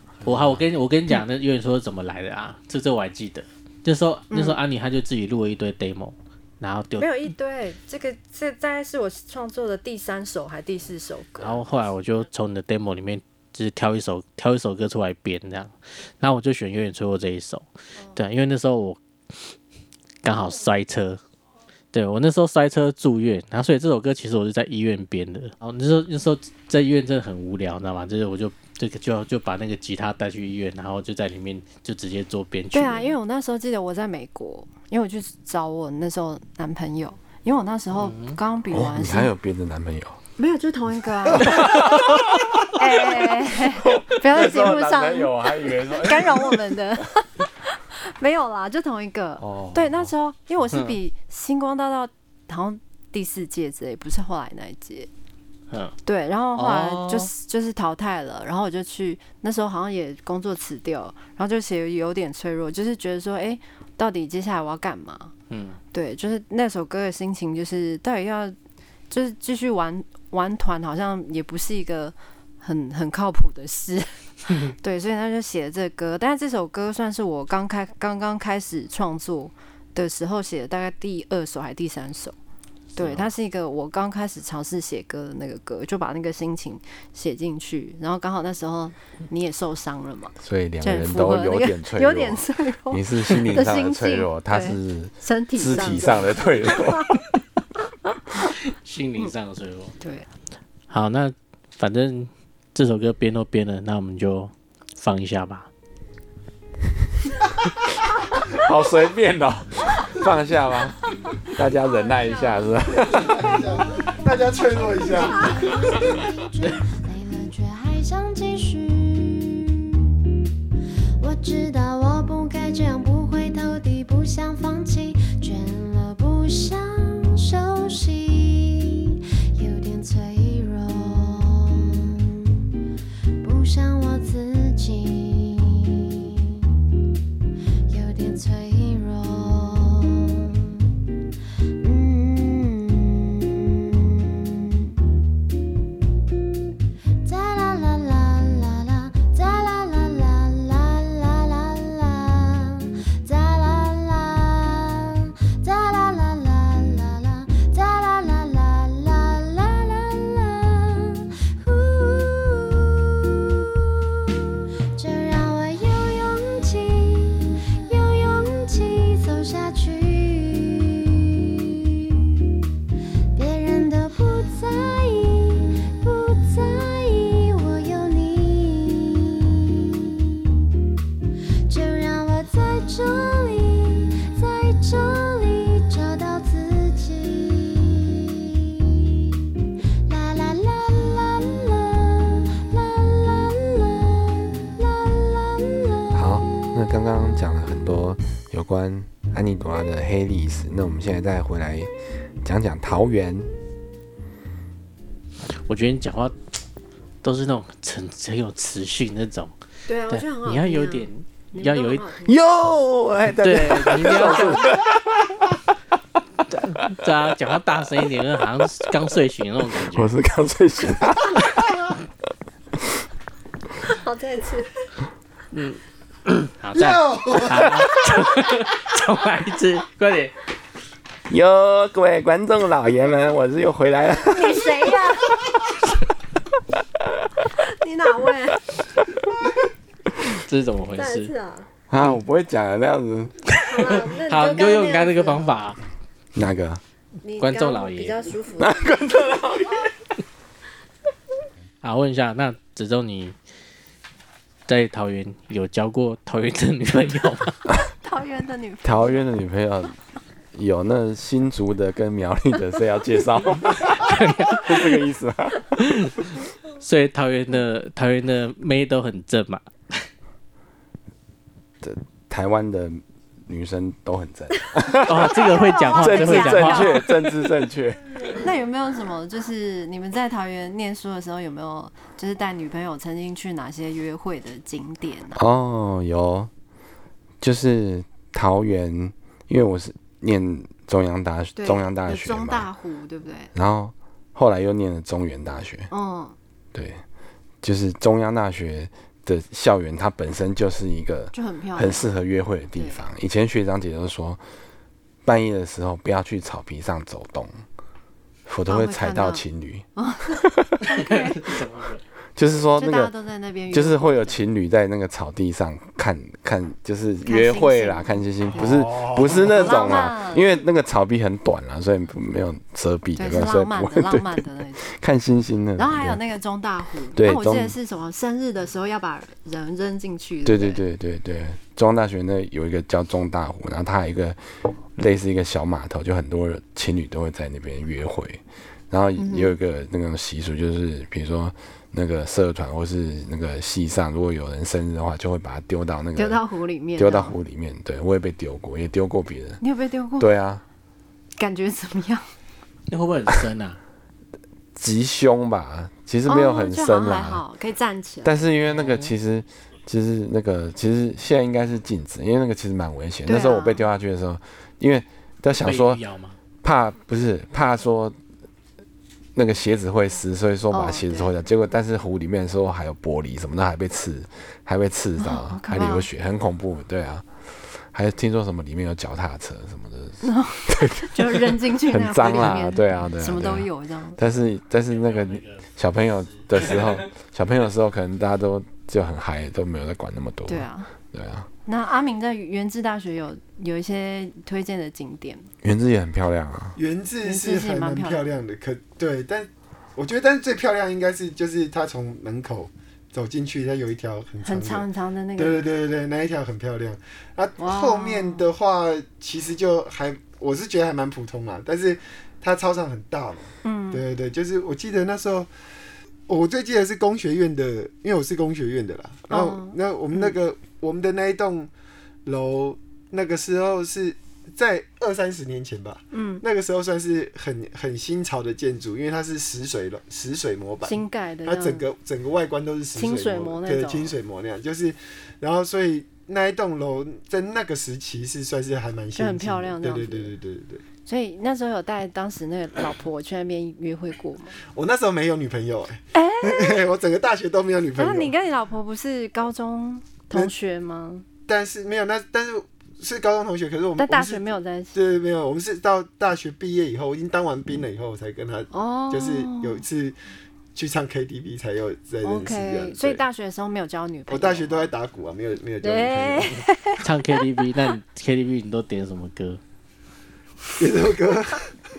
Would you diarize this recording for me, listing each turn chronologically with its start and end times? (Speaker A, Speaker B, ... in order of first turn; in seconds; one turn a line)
Speaker A: 0.2-0.6
Speaker B: 0.2-7.1
Speaker C: 4.3-4.6
Speaker C: 7.0-11.7
Speaker B: 11.4-19.5
Speaker B: 20.2-21.2
Speaker B: 21.9-33.1
Speaker C: 32.7-39.3
Speaker B: 37.9-38.4
Speaker A: 38.7-40.2
Speaker C: 40.4-42.0
Speaker A: 41.4-46.8
Speaker C: 42.7-55.1
Speaker A: 49.4-50.1
Speaker B: 55.7-56.0
Speaker C: 56.0-65.3
Speaker B: 56.6-57.3
Speaker B: 65.5-65.8
Speaker C: 65.9-68.5
Speaker C: 69.1-82.3
Speaker C: 83.0-97.1
Speaker B: 83.0-83.3
Speaker A: 90.4-97.2
Speaker D: 95.8-96.4
Speaker B: 98.7-100.0
Speaker C: 100.0-100.3
Speaker B: 100.9-105.7
Speaker A: 108.5-113.5
Speaker C: 112.2-112.6
Speaker D: 113.0-115.7
Speaker E: 115.2-120.1
Speaker E: 121.2-132.6
Speaker E: 133.4-136.7
Speaker E: 137.9-140.9
Speaker E: 141.8-145.0
Speaker E: 147.2-164.4
Speaker E: 164.9-172.4
Speaker E: 173.3-180.6
Speaker E: 181.7-189.4
Speaker E: 190.1-196.7
Speaker A: 196.1-201.9
Speaker A: 202.4-203.5
Speaker B: 205.7-206.4
Speaker B: 207.2-209.5
Speaker C: 209.9-212.3
Speaker B: 210.1-212.1
Speaker A: 212.2-215.6
Speaker B: 213.4-214.7
Speaker B: 216.5-220.1
Speaker A: 219.9-221.8
Speaker C: 223.8-224.7
Speaker B: 225.5-230.4
Speaker D: 226.8-228.0
Speaker A: 231.3-235.0
Speaker C: 234.2-235.4
Speaker C: 237.6-238.6
Speaker B: 240.4-241.3
Speaker C: 240.9-241.7
Speaker A: 241.9-243.4
Speaker B: 243.5-245.8
Speaker C: 243.6-245.4
Speaker A: 246.3-246.8
Speaker C: 247.2-248.9
Speaker B: 247.4-248.3
Speaker A: 248.6-249.9
Speaker B: 251.8-253.3
Speaker B: 254.7-257.6
Speaker C: 257.8-259.2
Speaker A: 258.8-260.0
Speaker A: 260.5-265.8
Speaker B: 263.8-265.0
Speaker B: 265.8-266.3
Speaker B: 266.8-270.1
Speaker A: 271.8-278.3
Speaker B: 275.1-277.0
Speaker C: 275.4-277.1
Speaker C: 278.3-285.4
Speaker A: 285.4-286.5
Speaker A: 287.4-292.7
Speaker C: 291.6-293.5
Speaker A: 293.5-295.9
Speaker C: 295.9-296.4
Speaker A: 296.7-297.0
Speaker A: 297.6-304.4
Speaker C: 301.3-302.1
Speaker C: 302.8-303.1
Speaker A: 305.2-307.5
Speaker A: 308.5-310.8
Speaker C: 308.7-309.4
Speaker C: 310.0-311.6
Speaker B: 310.9-312.0
Speaker A: 312.4-313.1
Speaker C: 312.8-314.4
Speaker A: 313.7-326.2
Speaker C: 317.2-318.2
Speaker D: 318.4-319.9
Speaker C: 319.3-320.5
Speaker C: 323.2-324.9
Speaker C: 325.8-330.8
Speaker A: 327.1-327.8
Speaker A: 330.4-334.4
Speaker A: 335.0-346.4
Speaker C: 339.2-339.5
Speaker C: 346.2-347.4
Speaker A: 347.0-349.6
Speaker C: 349.6-350.3
Speaker A: 350.2-350.6
Speaker C: 351.4-352.3
Speaker B: 352.9-353.8
Speaker A: 354.8-357.4
Speaker C: 356.3-358.4
Speaker A: 358.2-366.0
Speaker B: 358.7-359.1
Speaker C: 363.3-363.9
Speaker B: 365.6-366.4
Speaker A: 366.6-368.2
Speaker A: 369.4-391.5
Speaker C: 370.7-371.3
Speaker C: 375.2-376.1
Speaker C: 380.2-384.2
Speaker B: 384.9-385.6
Speaker B: 386.4-387.0
Speaker C: 390.5-390.9
Speaker C: 391.7-395.5
Speaker A: 395.6-396.8
Speaker D: 396.8-404.9
Speaker C: 397.2-398.2
Speaker C: 404.4-405.6
Speaker D: 405.4-415.5
Speaker C: 407.6-408.5
Speaker C: 413.6-414.0
Speaker D: 416.3-421.7
Speaker C: 419.3-420.4
Speaker D: 422.2-440.8
Speaker C: 426.1-426.4
Speaker C: 430.8-431.8
Speaker C: 432.9-434.1
Speaker C: 439.2-440.3
Speaker C: 441.1-444.6
Speaker D: 444.7-448.3
Speaker C: 446.1-446.8
Speaker C: 448.0-451.2
Speaker D: 451.5-460.2
Speaker C: 454.0-455.0
Speaker C: 458.7-459.8
Speaker D: 460.8-463.2
Speaker C: 462.2-464.9
Speaker D: 464.3-466.6
Speaker C: 465.8-467.4
Speaker B: 467.0-469.6
Speaker D: 470.8-471.7